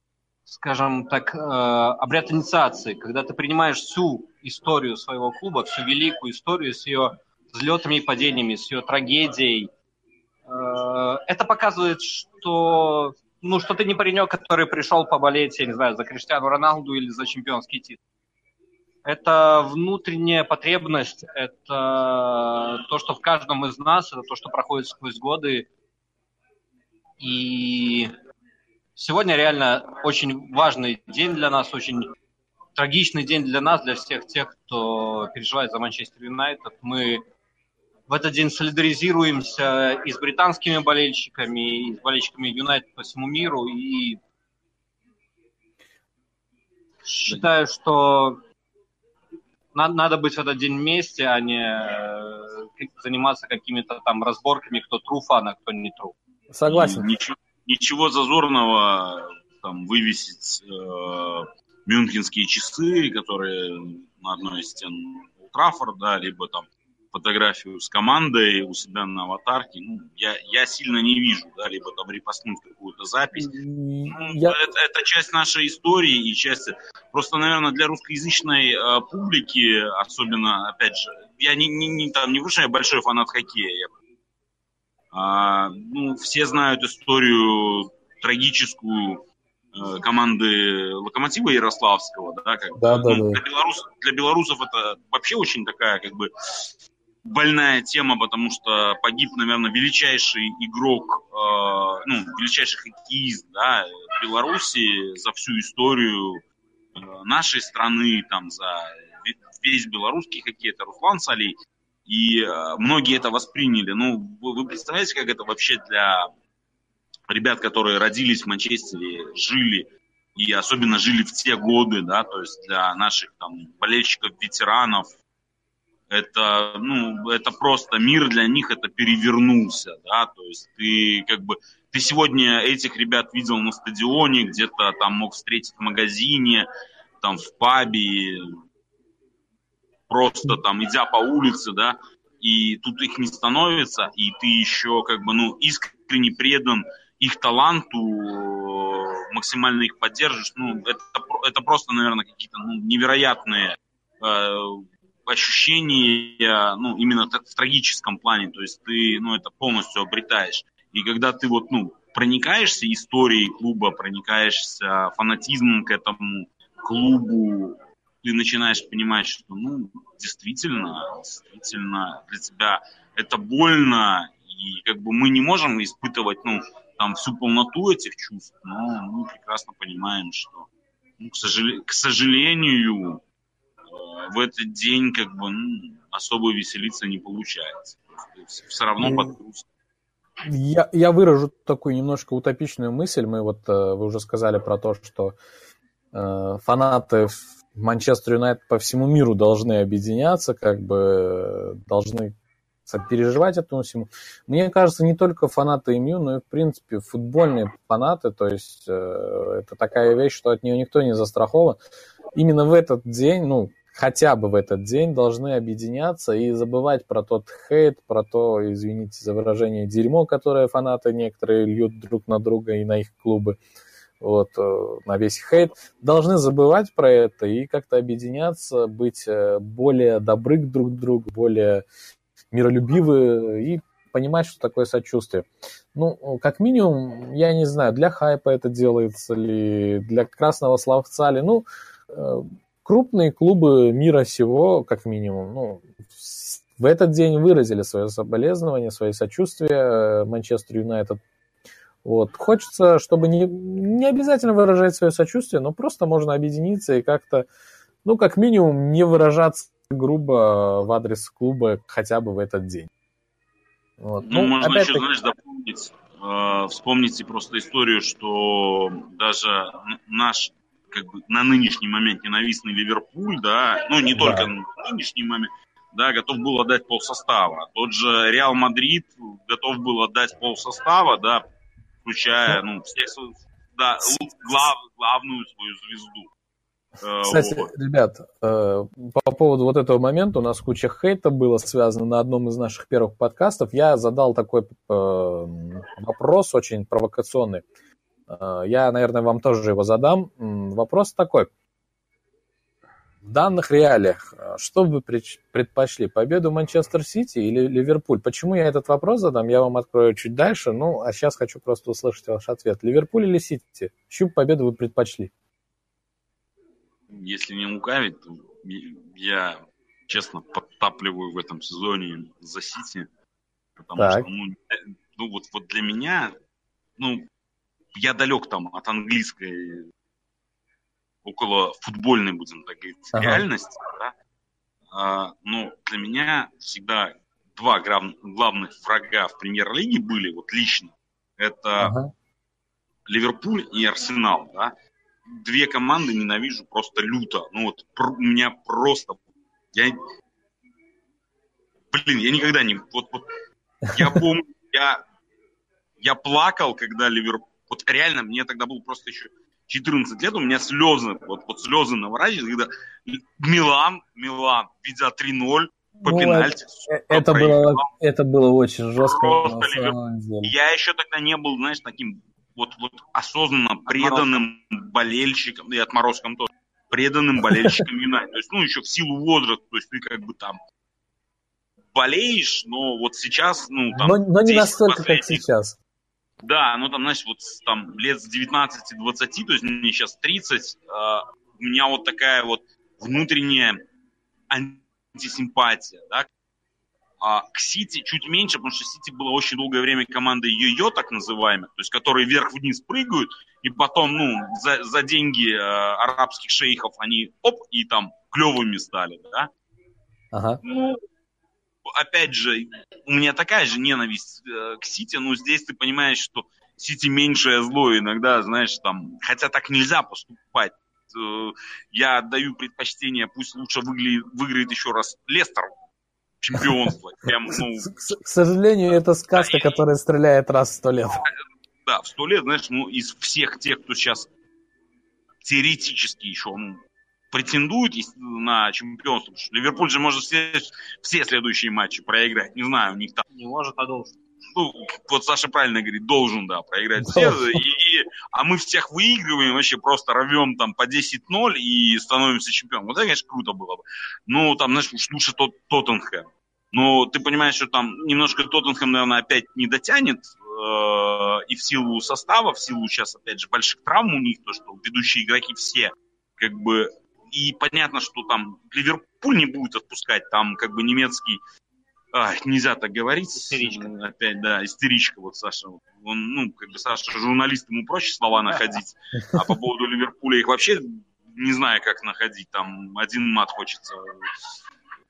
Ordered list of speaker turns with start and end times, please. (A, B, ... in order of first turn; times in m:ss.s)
0:00.5-0:09.7 A
0:10.5-0:18.0 A
0:19.0-0:25.7 A
0:27.2-0:28.1 A
0:29.0-0:32.1 A
0:32.8-0:37.2 A
0:38.1-0:44.2 A
0:47.1-0:48.4 A
0:49.7-0:56.2 A
0:56.5-0:57.1 B
0:56.7-1:13.5 C
1:13.4-1:14.6 B
1:14.1-1:23.9 C
1:25.1-1:36.7 C
1:32.8-1:33.4 B
1:37.2-1:46.4 C
1:47.0-1:56.3 C
1:57.3-2:05.2 C
2:06.1-2:16.7 C
2:17.2-2:18.5 C
2:20.1-3:00.7 C
3:01.2-3:03.2 C
3:03.9-3:09.7 C
3:09.0-3:09.3 B
3:10.4-3:15.4 B
3:16.1-3:22.3 B
3:22.9-3:31.8 B
3:32.4-3:43.6 B
3:44.2-3:51.8 B
3:52.5-4:11.2 B
4:12.0-4:17.5 B
4:18.0-4:22.9 B
4:24.0-4:25.1 B
4:24.3-4:41.4 C
4:34.0-4:34.5 B
4:42.0-4:46.3 C
4:44.0-4:44.6 B
4:47.0-4:47.7 C
4:47.2-4:57.6 B
4:58.3-5:01.5 B
5:03.2-5:15.3 B
5:17.1-5:23.1 C
5:23.8-5:26.4 C
5:24.0-5:24.3 B
5:27.0-5:27.3 C
5:28.0-5:29.9 C
5:31.2-5:34.1 C
5:33.1-5:33.4 B
5:34.9-5:42.0 C
5:41.8-5:42.1 B
5:43.1-5:44.7 C
5:45.3-5:49.2 C
5:51.9-5:53.3 C
5:53.9-5:55.0 C
5:56.0-6:07.8 C
6:06.0-6:10.5 B
6:09.0-6:20.6 C
6:17.5-6:17.8 B
6:21.9-6:25.4 C
6:23.9-6:25.8 B
6:26.4-6:33.8 C
6:34.5-6:36.3 C
6:37.2-6:49.5 C
6:50.3-6:50.6 B
6:50.6-6:51.0 C
6:51.9-7:05.7 C
7:06.4-7:08.1 C
7:07.8-7:11.2 B
7:09.4-7:09.8 C
7:11.1-7:14.3 C
7:15.4-7:16.8 C
7:17.3-7:23.2 C
7:23.3-7:24.2 A
7:24.5-7:51.4 C
7:27.0-7:27.6 B
7:52.1-8:04.5 C
7:53.4-7:53.9 A